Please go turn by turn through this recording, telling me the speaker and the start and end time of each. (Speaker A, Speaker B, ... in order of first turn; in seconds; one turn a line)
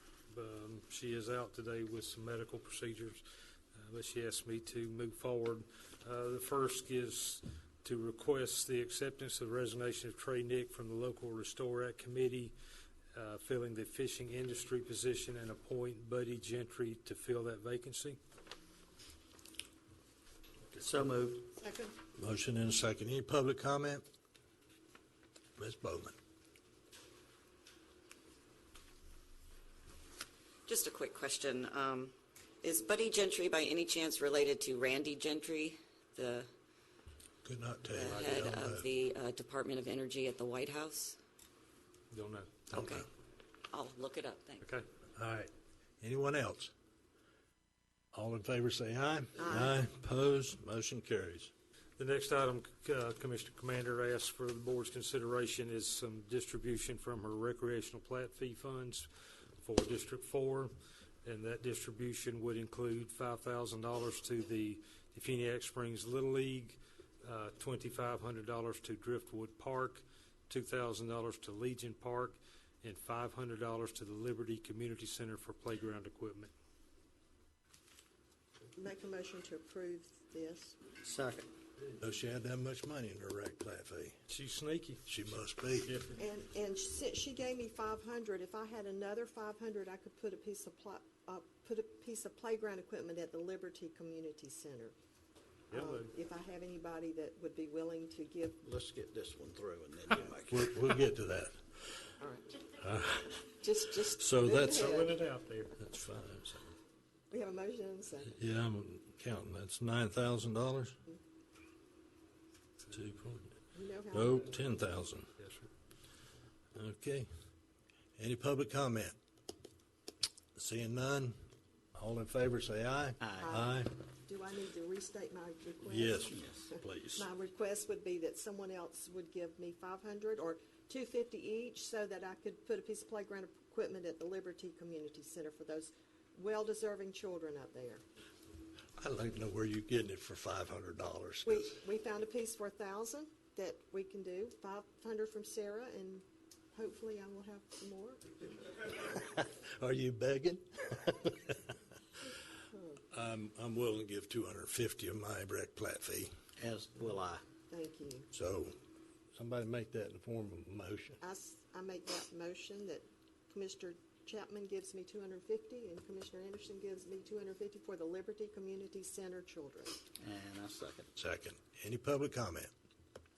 Speaker A: 0.3-3.2
Speaker A: 3.7-12.5
Speaker A: 13.1-18.2
Speaker B: 20.8-21.5
Speaker C: 21.6-21.9
Speaker D: 22.2-24.0
Speaker D: 25.6-26.1
Speaker E: 30.7-36.5
Speaker D: 37.4-38.9
Speaker E: 37.9-41.2
Speaker A: 42.1-42.6
Speaker E: 42.7-43.0
Speaker D: 42.7-43.0
Speaker E: 43.7-44.6
Speaker D: 45.1-45.5
Speaker D: 46.0-46.7
Speaker D: 48.1-51.5
Speaker C: 49.4-49.8
Speaker A: 52.0-59.1
Speaker A: 59.6-76.5
Speaker C: 78.7-80.8
Speaker B: 81.0-81.5
Speaker D: 81.9-84.2
Speaker A: 84.3-85.0
Speaker D: 85.0-85.9
Speaker A: 85.8-86.2
Speaker C: 86.2-94.9
Speaker A: 95.7-96.1
Speaker C: 95.7-98.6
Speaker B: 98.6-101.0
Speaker D: 100.5-101.7
Speaker C: 102.2-102.6
Speaker D: 102.8-103.6
Speaker C: 103.6-105.2
Speaker D: 104.1-105.0
Speaker A: 104.7-105.8
Speaker D: 105.8-106.7
Speaker C: 107.3-108.3
Speaker D: 108.3-111.0
Speaker D: 112.9-113.5
Speaker C: 113.7-114.5
Speaker D: 114.1-115.3
Speaker A: 115.4-115.7
Speaker D: 116.7-117.3
Speaker D: 118.2-119.2
Speaker D: 120.5-121.4
Speaker D: 121.9-123.9
Speaker B: 123.2-123.5
Speaker C: 123.4-138.0
Speaker D: 125.8-127.3
Speaker D: 139.0-141.7
Speaker C: 141.4-148.2
Speaker D: 148.9-151.6
Speaker D: 153.1-156.3
Speaker B: 156.6-157.4
Speaker C: 157.7-158.3
Speaker D: 158.3-158.8
Speaker D: 159.3-161.2
Speaker C: 161.2-170.0
Speaker B: 170.2-171.1
Speaker D: 171.2-172.7